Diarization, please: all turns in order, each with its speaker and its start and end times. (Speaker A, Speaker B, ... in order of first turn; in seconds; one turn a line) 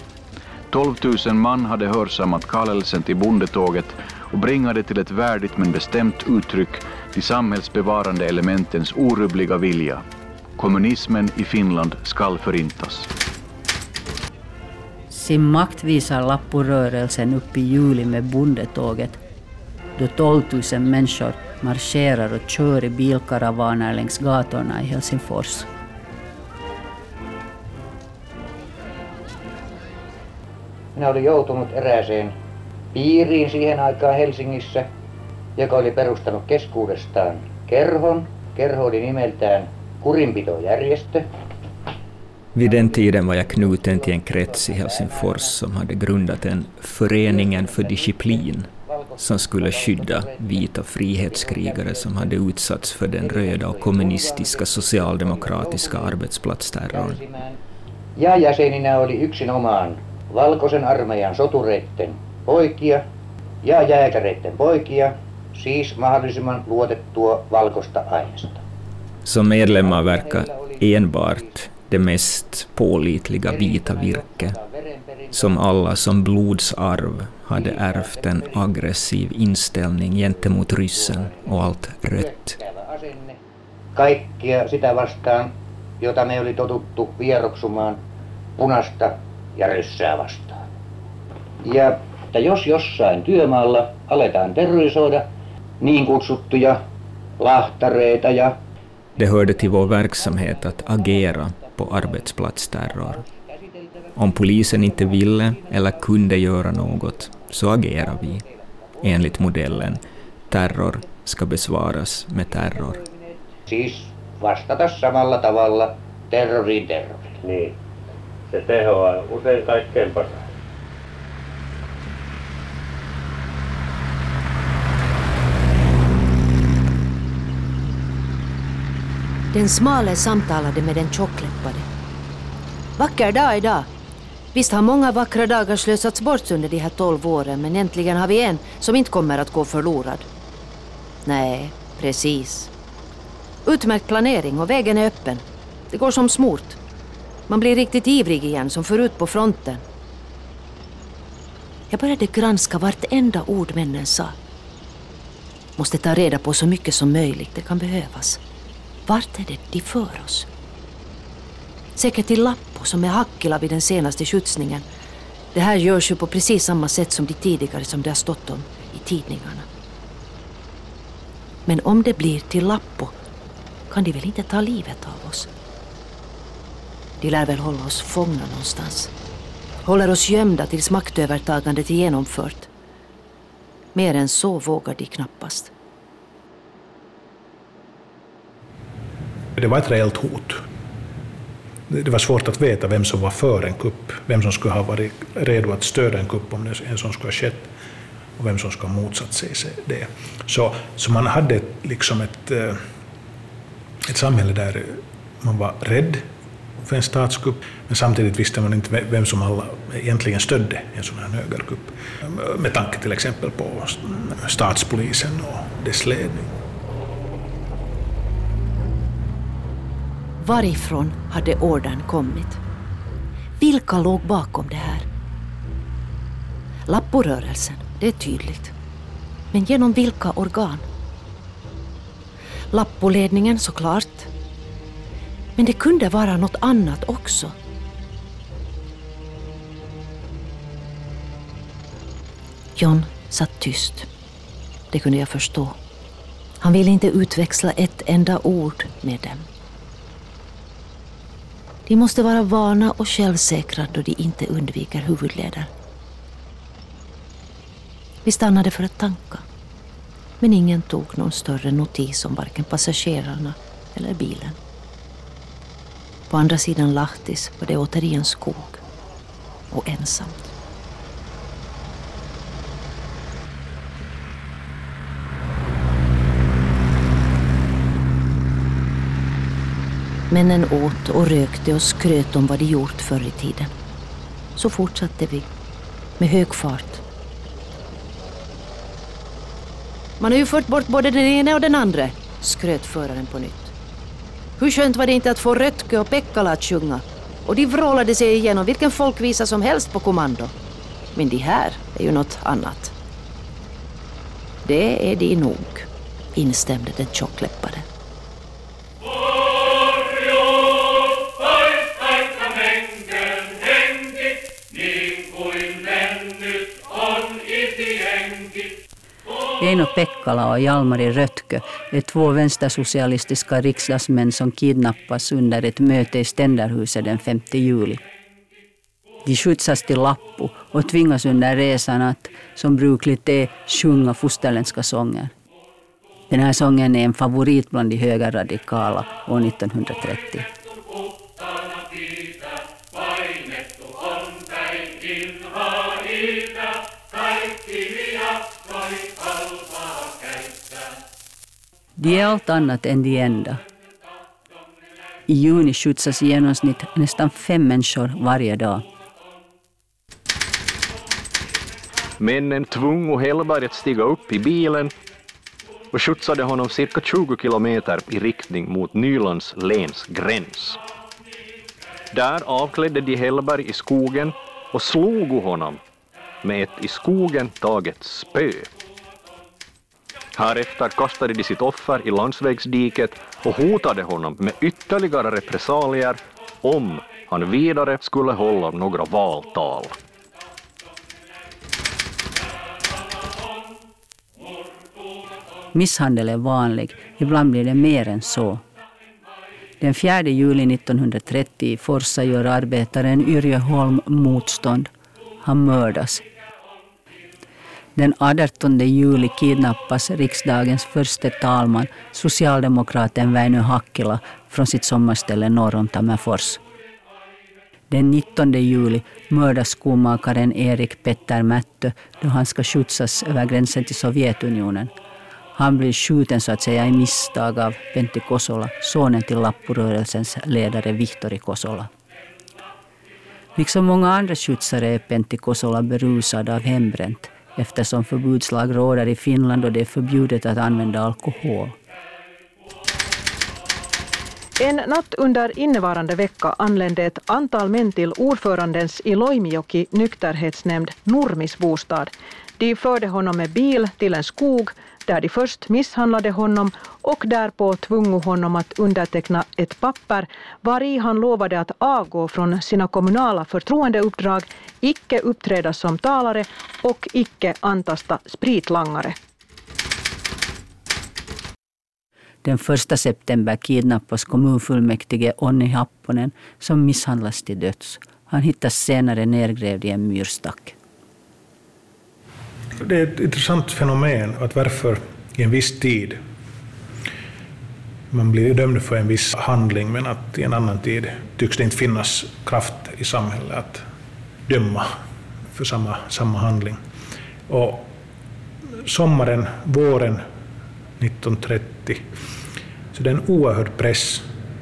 Speaker A: 0.7-10.0
Speaker A: 10.6-13.1
Speaker B: 15.1-19.2
Speaker B: 20.0-25.7
Speaker C: 30.9-32.3
Speaker C: 32.9-34.9
Speaker C: 35.5-41.3
Speaker D: 42.5-57.2
Speaker C: 42.6-45.5
Speaker C: 47.2-50.7
Speaker C: 51.2-52.3
Speaker C: 53.2-56.1
Speaker C: 56.9-57.6
Speaker C: 58.2-63.0
Speaker C: 63.6-68.6
Speaker D: 69.2-74.5
Speaker C: 69.6-71.4
Speaker C: 73.5-75.6
Speaker D: 75.3-82.6
Speaker C: 77.5-78.6
Speaker C: 81.0-83.4
Speaker C: 83.9-88.0
Speaker C: 88.6-90.7
Speaker C: 91.6-95.3
Speaker C: 95.8-96.8
Speaker C: 97.4-98.6
Speaker D: 99.2-103.2
Speaker C: 99.5-102.1
Speaker C: 102.9-108.4
Speaker D: 104.2-108.4
Speaker C: 109.0-109.9
Speaker D: 109.0-110.0
Speaker D: 110.5-113.0
Speaker C: 112.8-117.4
Speaker E: 117.4-117.8
Speaker E: 118.5-120.5
Speaker F: 129.5-131.9
Speaker F: 133.0-133.9
Speaker F: 134.5-140.3
Speaker F: 141.2-142.7
Speaker F: 143.6-146.8
Speaker F: 147.5-149.8
Speaker F: 151.9-154.4
Speaker F: 155.8-158.4
Speaker F: 159.1-160.5
Speaker F: 161.9-164.8
Speaker F: 165.5-169.7
Speaker F: 171.7-173.2
Speaker F: 173.9-175.5
Speaker F: 177.2-179.1
Speaker F: 179.8-182.7
Speaker F: 183.9-185.7
Speaker G: 189.6-190.6
Speaker G: 191.9-197.7
Speaker G: 198.4-202.8
Speaker G: 204.1-206.2
Speaker G: 206.8-216.5
Speaker F: 220.4-222.6
Speaker F: 223.6-225.1
Speaker F: 226.9-228.7
Speaker F: 229.5-230.9
Speaker F: 232.7-234.3
Speaker F: 235.6-237.6
Speaker F: 242.8-244.1
Speaker F: 244.9-245.8
Speaker F: 246.6-249.5
Speaker F: 251.9-255.7
Speaker F: 258.2-259.4
Speaker F: 260.4-264.6
Speaker F: 266.3-268.8
Speaker F: 269.7-270.5
Speaker F: 280.3-283.7
Speaker F: 284.6-285.5
Speaker F: 286.2-287.0
Speaker F: 290.2-293.7
Speaker F: 294.6-300.5
Speaker F: 301.1-302.9
Speaker F: 304.6-307.9
Speaker B: 319.6-328.0
Speaker B: 329.2-335.3
Speaker B: 336.3-340.5
Speaker B: 352.0-353.6
Speaker B: 355.3-358.9
Speaker H: 362.2-364.9
Speaker H: 365.9-370.8
Speaker H: 372.1-375.8
Speaker H: 376.4-378.7
Speaker H: 380.4-390.0
Speaker B: 395.7-398.6
Speaker B: 399.8-404.9
Speaker B: 405.4-406.2
Speaker B: 407.9-416.6
Speaker B: 417.9-424.9
Speaker B: 425.6-431.9
Speaker B: 433.6-441.8
Speaker I: 444.6-469.1
Speaker B: 472.4-480.8
Speaker G: 482.8-486.2
Speaker G: 488.1-493.8
Speaker G: 494.4-494.9
Speaker G: 495.5-496.8
Speaker G: 497.5-497.9
Speaker G: 498.9-500.2
Speaker G: 501.0-502.1
Speaker G: 502.9-504.2